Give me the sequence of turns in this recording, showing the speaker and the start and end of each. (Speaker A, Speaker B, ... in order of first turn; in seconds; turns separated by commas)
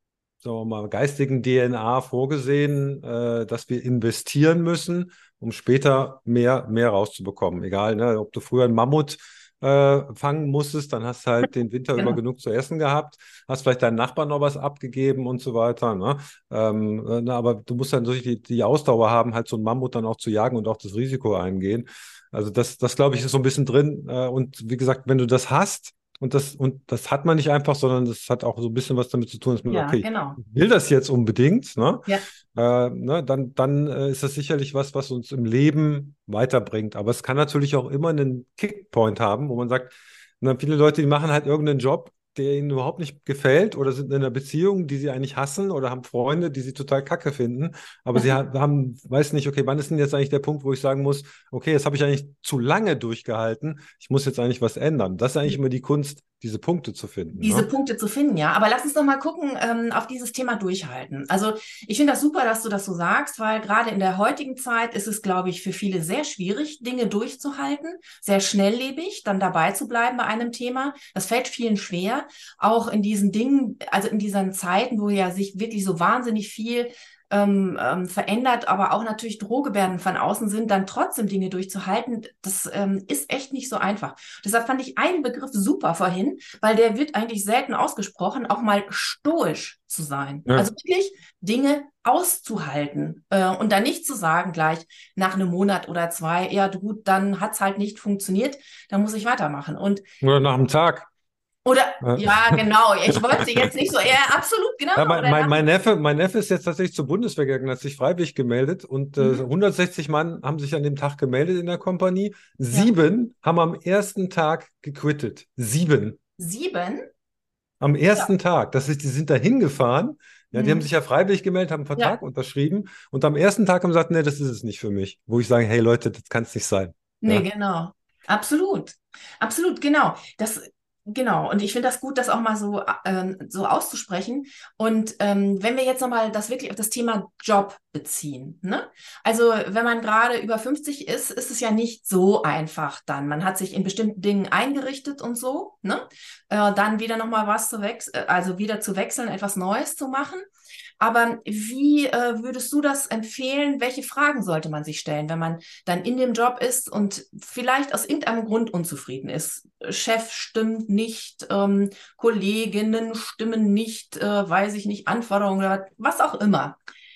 Speaker A: 0.4-57.7, Speaker B: 29.7-30.4, Speaker B: 57.4-100.0, Speaker A: 100.2-101.1, Speaker B: 101.7-105.6, Speaker A: 102.0-103.7, Speaker A: 105.0-116.2, Speaker B: 109.2-109.4, Speaker B: 116.4-117.0, Speaker A: 117.8-127.5, Speaker B: 120.5-120.9, Speaker B: 127.2-150.5, Speaker B: 151.0-166.8